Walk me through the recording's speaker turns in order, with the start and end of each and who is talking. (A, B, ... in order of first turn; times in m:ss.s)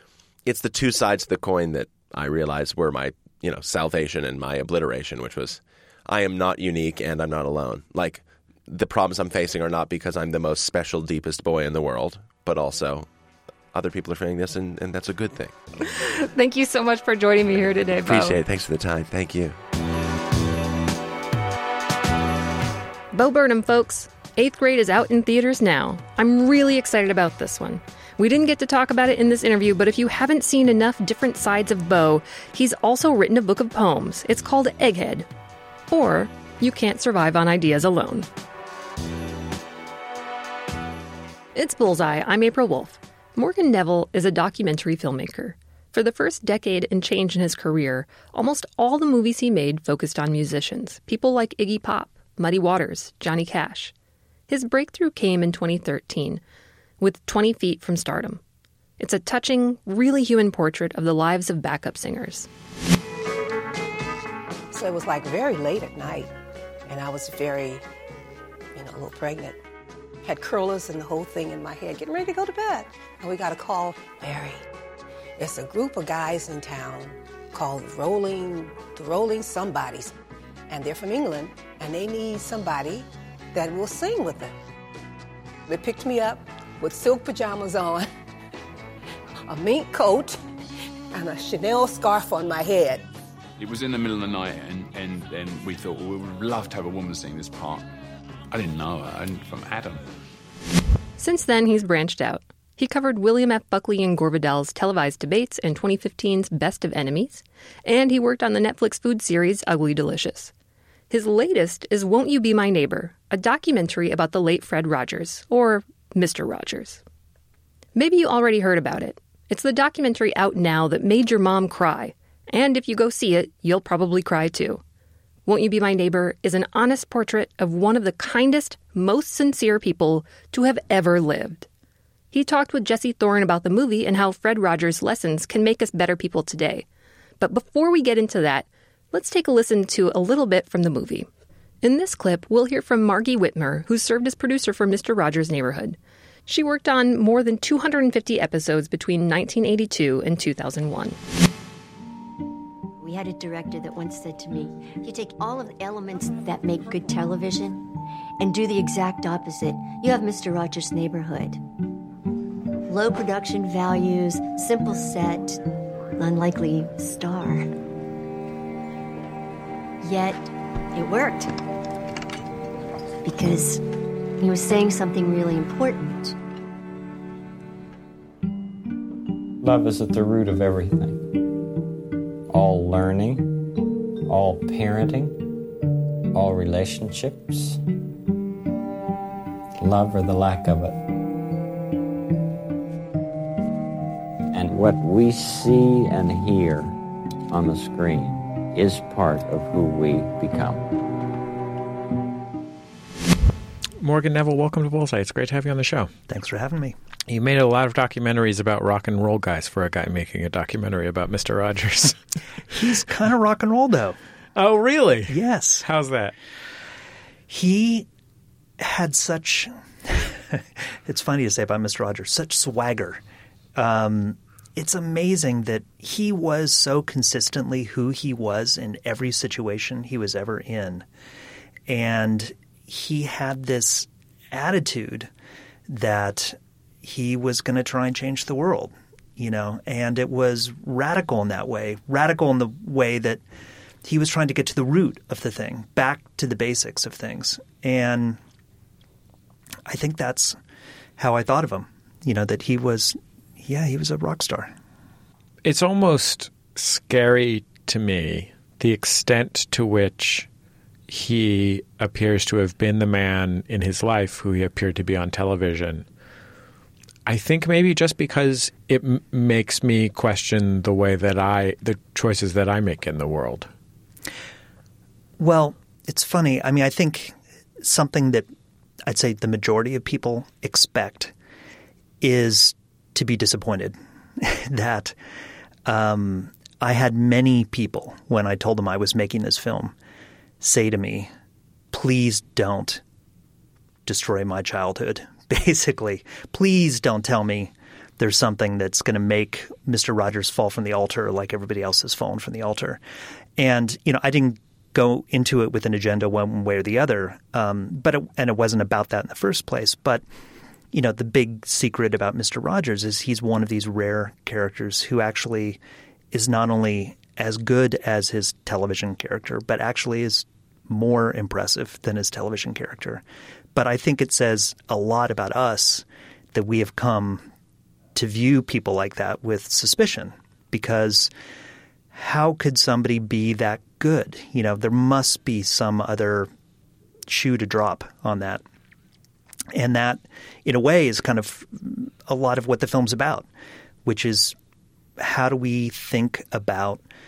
0:00.4-0:13.1 A
0:13.7-0:15.6 A
0:15.8-0:18.4 B
0:17.9-0:19.6 A
0:23.1-0:35.3 B
0:35.9-0:38.3 B
0:41.5-0:53.9 B
0:54.5-0:56.4 B
0:57.0-0:58.4 B
0:59.0-1:02.5 B
1:04.7-1:06.3 C
1:06.9-1:07.8 C
1:08.7-1:09.6 C
1:10.2-1:14.6 C
1:15.4-1:20.1 C
1:20.7-1:24.5 C
1:25.7-1:28.1 C
1:29.5-1:30.4 C
1:31.1-1:33.0 C
1:33.6-1:37.8 D
1:38.5-1:40.0 D
1:41.2-1:50.5 B
1:51.1-1:57.0 B
1:57.9-2:04.8 B
2:05.4-2:11.7 B
2:12.3-2:16.8 B
2:17.4-2:21.3 B
2:21.8-2:31.2 B
2:33.0-2:37.9 E
2:38.4-2:41.6 E
2:42.8-2:45.6 E
2:46.2-2:47.7 E
2:50.0-2:51.5 E
2:53.2-2:53.8 E
2:54.4-2:56.4 E
2:59.6-3:01.4 F
3:02.5-3:03.7 F
3:04.2-3:05.5 F
3:06.3-3:07.8 F
3:09.8-3:11.0 F
3:14.5-3:17.0 F
3:17.5-3:21.0 F
3:24.0-3:26.1 G
3:26.3-3:26.9 H
3:27.3-3:32.2 G
3:32.7-3:34.2 H
3:34.5-3:36.3 G
3:35.3-3:35.8 H
3:37.5-3:38.1 H
3:38.8-3:43.2 H
3:43.7-3:51.0 H
3:51.9-3:55.3 H
3:55.9-4:03.4 H
4:04.0-4:08.4 H
4:09.8-4:10.6 H
4:11.2-4:14.7 H
4:15.6-4:20.5 G
4:21.1-4:26.0 G
4:27.2-4:33.7 G
4:35.4-4:38.5 H
4:39.0-4:41.3 H
4:42.2-4:45.1 H
4:45.8-4:49.9 H
4:50.6-4:51.3 H
4:51.9-4:53.0 H
4:54.0-5:03.0 H
5:03.6-5:10.2 H
5:10.9-5:15.8 H
5:16.3-5:23.2 H
5:23.7-5:27.5 H
5:28.1-5:31.3 H
5:32.1-5:36.5 H
5:37.3-5:38.6 H
5:39.7-5:43.5 H
5:44.0-5:44.5 H
5:45.2-5:47.0 H